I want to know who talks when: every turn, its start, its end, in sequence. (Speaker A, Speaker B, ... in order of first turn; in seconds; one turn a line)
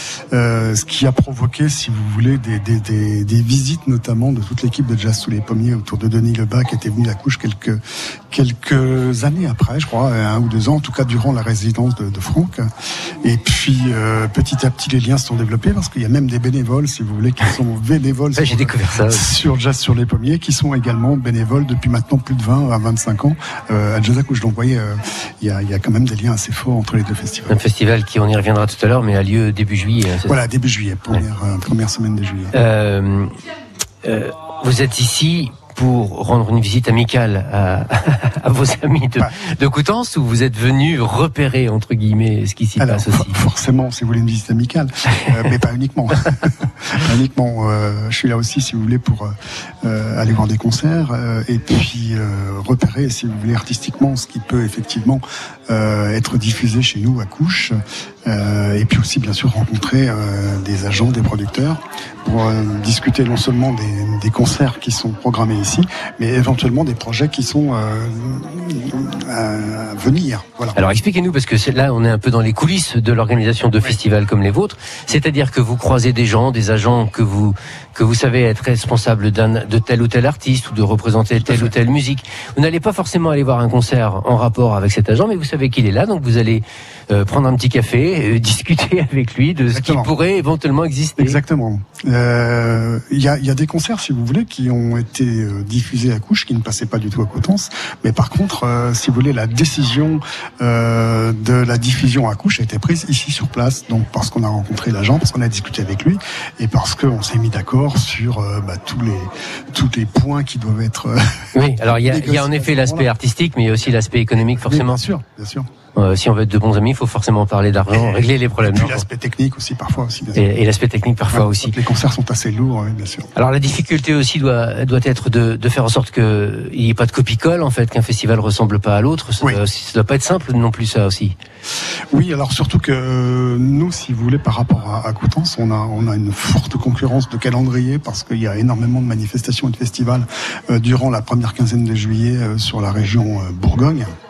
Speaker A: 0.3-7.8
Speaker A: 8.3-12.7
Speaker A: 13.2-27.6
Speaker B: 18.4-19.3
Speaker B: 27.5-30.4
Speaker A: 30.2-32.5
Speaker B: 32.5-33.3
Speaker B: 34.0-43.4
Speaker A: 42.8-57.8
Speaker A: 58.2-70.8
Speaker B: 70.8-91.4
Speaker A: 81.4-81.7
Speaker A: 89.7-90.1
Speaker A: 91.2-113.1
Speaker B: 111.5-115.0
Speaker A: 114.5-115.7
Speaker B: 116.0-119.0
Speaker A: 117.9-120.5
Speaker B: 120.3-121.7
Speaker A: 121.3-123.3
Speaker B: 123.4-131.3
Speaker A: 132.1-144.1